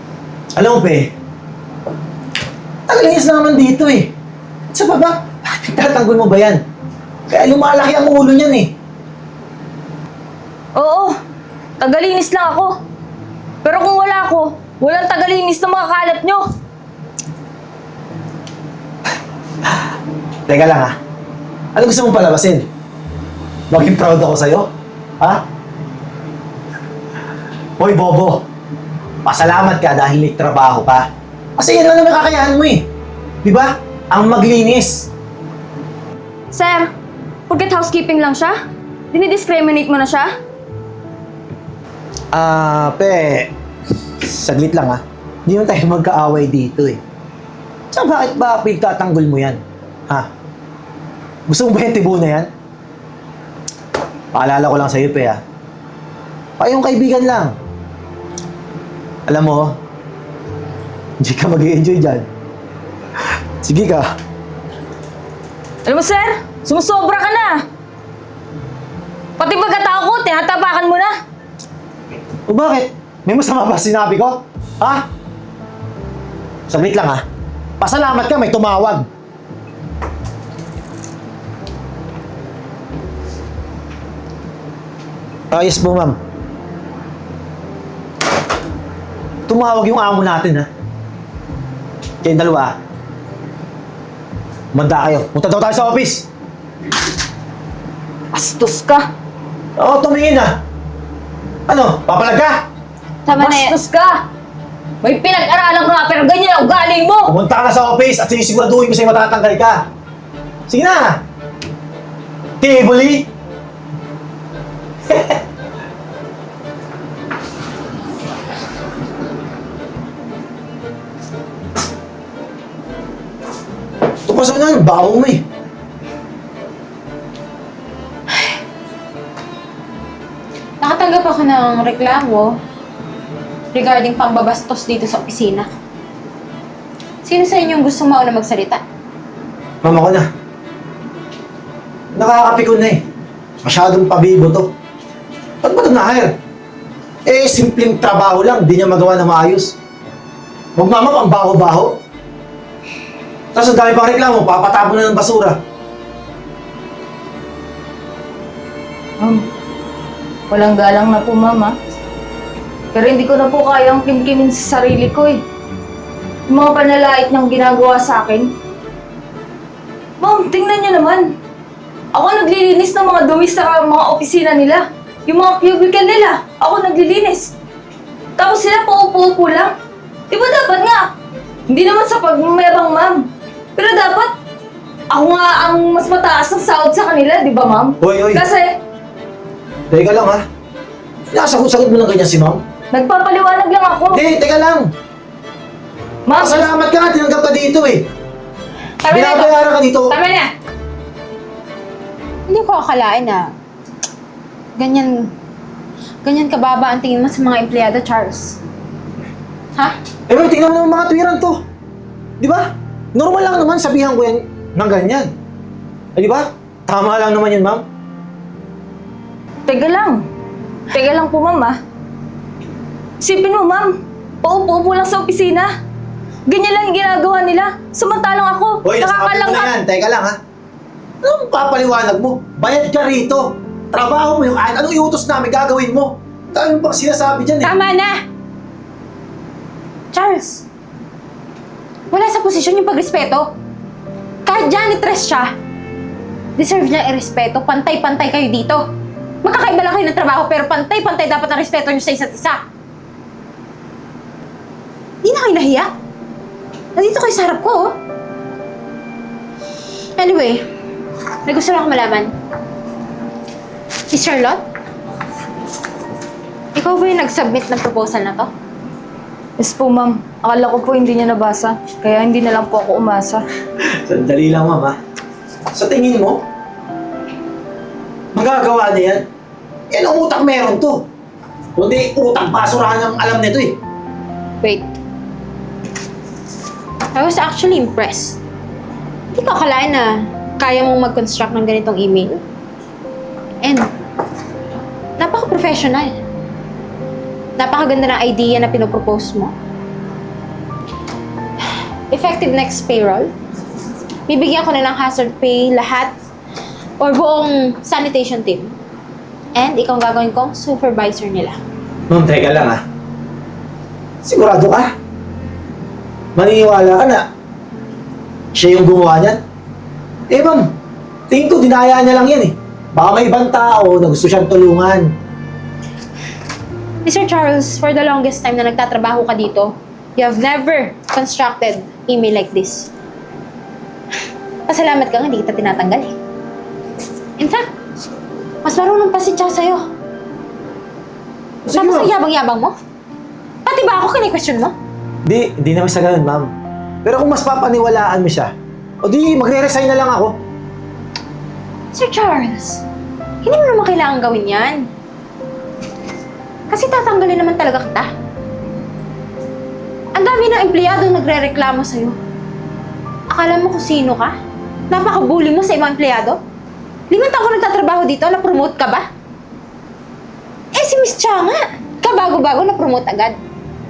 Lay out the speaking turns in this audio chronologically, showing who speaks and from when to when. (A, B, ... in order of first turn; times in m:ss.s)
0:00.6-0:01.1 A
0:02.9-0:04.1 A
0:04.7-0:06.6 A
0:07.3-0:08.7 A
0:10.8-0:11.1 B
0:11.8-0:12.8 B
0:13.6-0:16.5 B
0:20.5-0:21.0 A
0:21.8-0:22.7 A
0:23.7-0:24.7 A
0:27.8-0:28.4 A
0:29.2-0:32.9 A
0:33.4-0:35.1 A
0:36.5-0:36.9 B
0:37.5-0:38.6 B
0:39.1-0:40.4 B
0:42.3-0:43.5 A
0:44.2-0:47.0 A
0:47.9-0:50.3 A
0:51.5-0:52.5 A
0:54.3-0:55.4 A
0:56.6-0:57.6 A
0:59.3-0:59.8 A
1:01.2-1:02.3 A
1:03.6-1:04.1 A
1:05.8-1:07.6 B
1:09.4-1:11.2 B
1:12.5-1:15.0 A
1:16.7-1:17.2 A
1:17.8-1:19.1 A
1:25.5-1:26.2 A
1:29.5-1:30.7 A
1:32.2-1:32.8 A
1:34.7-1:36.3 A
1:38.3-1:39.1 B
1:39.8-1:40.6 A
1:41.7-1:42.6 A
1:43.3-1:44.2 B
1:43.4-1:43.8 C
1:45.0-1:47.3 B
1:47.3-1:49.8 A
1:50.7-1:51.2 A
1:52.6-1:53.3 A
1:55.1-1:55.4 A
2:04.3-2:05.4 A
2:10.8-2:12.5 C
2:13.7-2:15.7 C
2:17.2-2:18.8 C
2:19.8-2:20.3 A
2:22.2-2:23.0 A
2:23.6-2:24.7 A
2:25.6-2:26.3 A
2:27.3-2:29.8 A
2:30.8-2:32.0 A
2:33.6-2:35.6 A
2:39.2-2:39.5 B
2:40.5-2:41.7 B
2:42.9-2:45.4 B
2:46.5-2:48.5 B
2:50.2-2:51.3 B
2:52.1-2:57.5 B
2:58.4-2:59.7 B
3:00.3-3:01.1 B
3:01.7-3:04.3 B
3:05.1-3:08.8 B
3:08.0-3:08.4 A
3:09.9-3:10.4 A
3:11.3-3:12.6 A
3:12.9-3:14.2 B
3:14.1-3:14.9 A
3:16.3-3:16.7 B
3:16.3-3:18.1 A
3:19.0-3:20.5 C
3:19.1-3:20.2 A
3:22.5-3:23.5 C
3:24.8-3:25.3 C
3:26.2-3:28.6 C
3:30.3-3:31.6 A
3:32.4-3:35.3 A
3:36.2-3:37.8 A
3:39.7-3:40.2 B
3:40.9-3:41.8 B
3:43.2-3:45.7 B
3:46.5-3:49.7 B
3:48.8-3:50.4 A
3:51.2-3:57.7 A
3:57.6-3:58.2 C
4:00.1-4:00.6 C
4:02.1-4:03.5 C
4:04.5-4:05.5 C
4:06.6-4:08.8 C
4:09.4-4:12.6 C
4:15.2-4:15.9 C
4:17.0-4:17.9 C
4:20.2-4:20.6 C
4:21.5-4:22.3 C
4:24.1-4:24.6 C
4:26.8-4:28.5 C
4:29.6-4:33.5 B
4:33.8-4:35.0 A
4:35.7-4:36.4 A
4:38.3-4:39.2 A
4:39.9-4:41.0 A
4:41.8-4:43.8 A
4:44.6-4:44.9 C
4:47.2-4:48.4 C
4:49.3-4:52.4 C
4:53.6-4:53.9 C
4:55.2-4:56.2 C
4:57.6-4:59.5 C
5:02.1-5:03.3 C
5:04.3-5:06.1 C
5:07.0-5:08.7 C
5:09.6-5:11.6 C
5:12.1-5:12.8 A
5:14.2-5:14.9 A
5:16.4-5:17.3 A
5:18.5-5:19.4 A
5:20.3-5:20.7 A
5:21.3-5:25.1 A
5:27.0-5:32.9 C
5:34.7-5:36.2 C
5:37.4-5:37.7 C
5:38.6-5:39.8 C
5:41.6-5:42.1 A
5:41.8-5:42.8 C
5:43.6-5:44.7 C
5:45.2-5:46.5 A
5:47.0-5:48.5 A
5:49.0-5:50.4 A
5:51.9-5:52.8 C
5:53.4-5:54.9 C
5:56.7-5:58.1 C
6:00.2-6:02.2 C
6:03.3-6:04.4 C
6:04.9-6:06.4 C
6:07.1-6:09.1 C
6:10.7-6:13.4 C